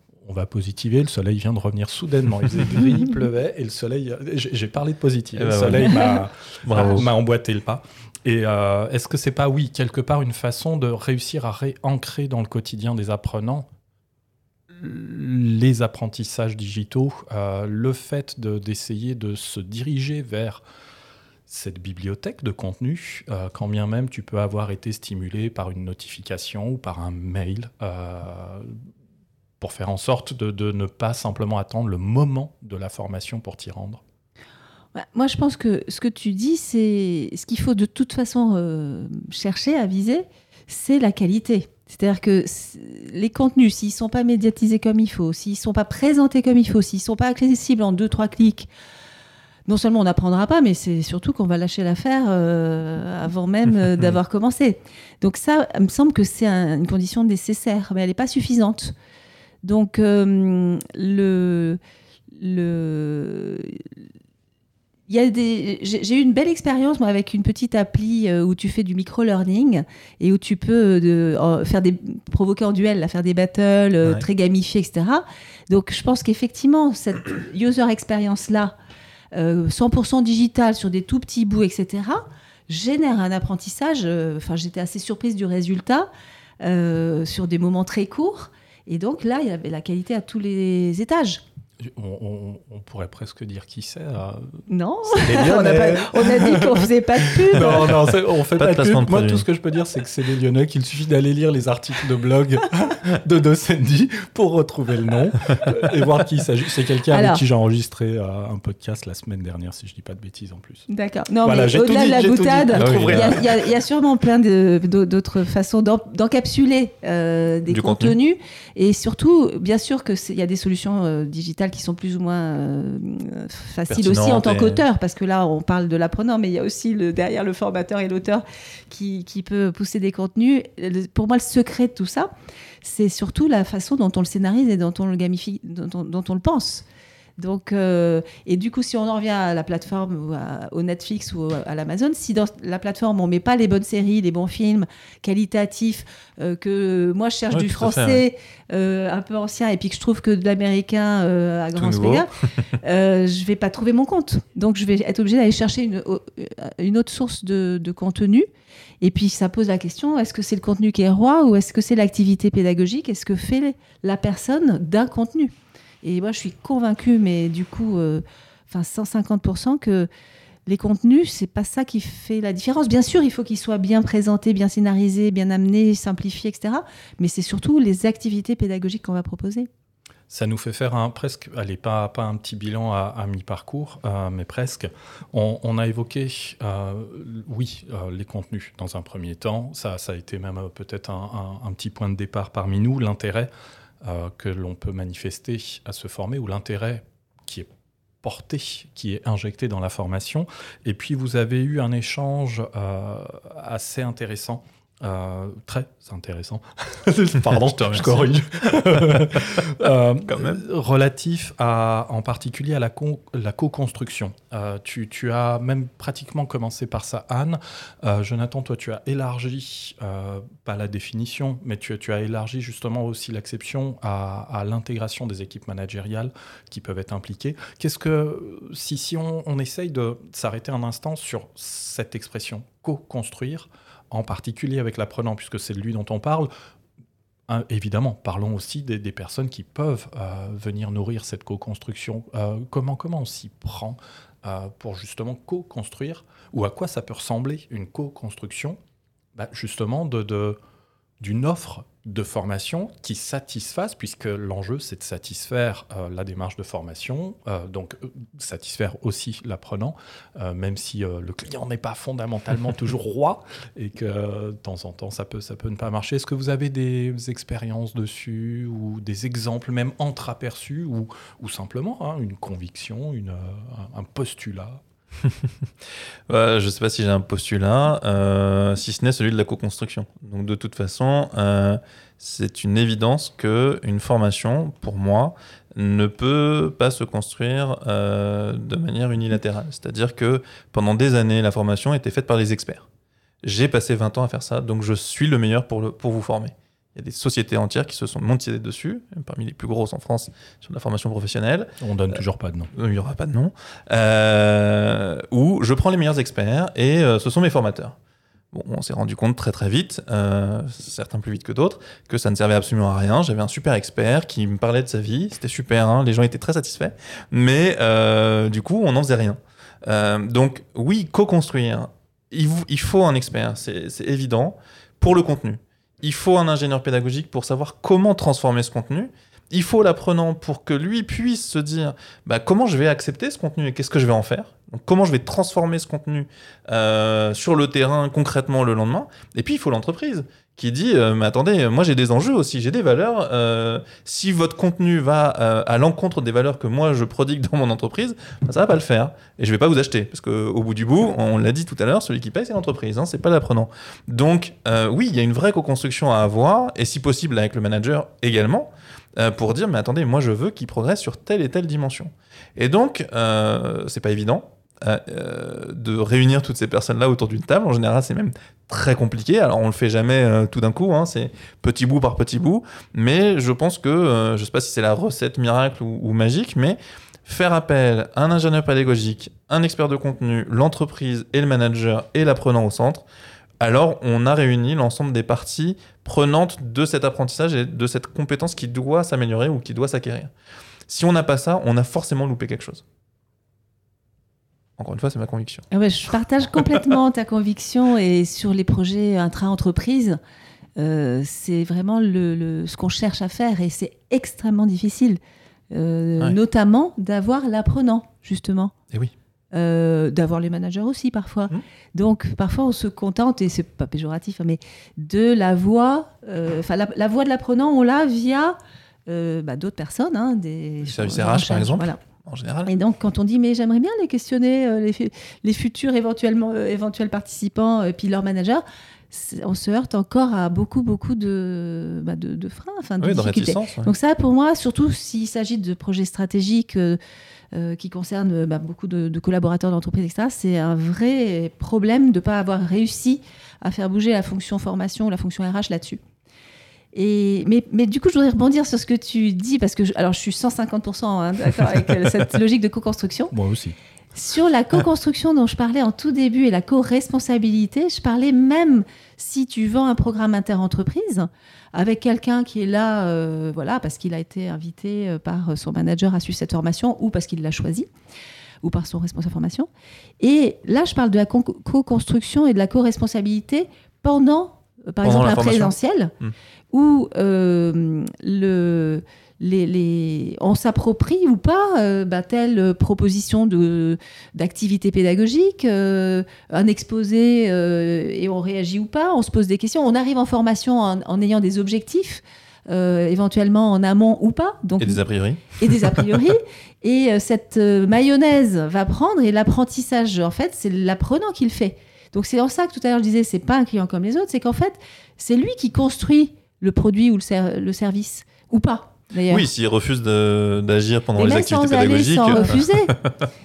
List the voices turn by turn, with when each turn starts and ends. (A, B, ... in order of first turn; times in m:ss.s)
0:00.2-0:13.7 A
0:05.4-0:06.0 B
0:06.6-0:07.1 B
0:14.7-0:20.6 A
0:21.5-0:28.8 A
0:29.6-0:34.0 A
0:34.9-0:48.7 C
0:49.7-0:58.9 C
0:59.6-1:01.8 C
1:02.3-1:03.9 C
1:05.1-1:18.8 C
1:19.3-1:26.1 C
1:26.6-1:31.4 C
1:31.8-1:50.8 A
1:34.7-1:37.9 C
1:37.8-1:39.4 B
1:47.1-1:47.4 C
1:50.9-2:12.3 C
1:51.4-1:53.6 A
1:52.7-1:53.4 B
1:57.7-1:58.1 B
2:03.9-2:04.8 B
2:12.8-2:16.8 C
2:17.4-2:38.5 C
2:27.5-2:28.2 B
2:31.8-2:32.6 B
2:39.0-2:50.1 C
2:50.6-2:59.7 C
3:00.3-3:13.5 A
3:14.0-3:17.7 A
3:18.2-3:56.5 A
3:27.6-3:30.6 B
3:57.5-4:08.8 A
4:09.3-4:10.6 A
4:11.2-4:34.8 A
4:36.3-4:52.9 B
4:53.4-5:02.2 B
5:01.8-5:02.7 A
5:02.7-5:07.9 B
5:08.5-6:23.0 B
6:23.6-6:30.3 B
6:30.9-6:32.8 B
6:34.8-6:35.6 B
6:35.7-6:40.2 C
6:40.8-6:45.2 C
6:45.7-6:48.7 C
6:49.5-7:02.0 C
7:00.8-7:02.7 B
7:02.6-7:17.0 C
7:13.0-7:13.9 B
7:17.5-7:26.0 C
7:26.9-7:33.3 C
7:33.3-7:33.8 A
7:34.2-7:47.9 C
7:48.6-7:49.7 C
7:50.2-7:56.1 C
7:55.0-7:56.3 B
7:56.7-8:15.0 C
8:14.8-8:16.2 B
8:15.6-8:29.5 C
8:29.3-8:33.2 B
8:31.2-8:32.9 C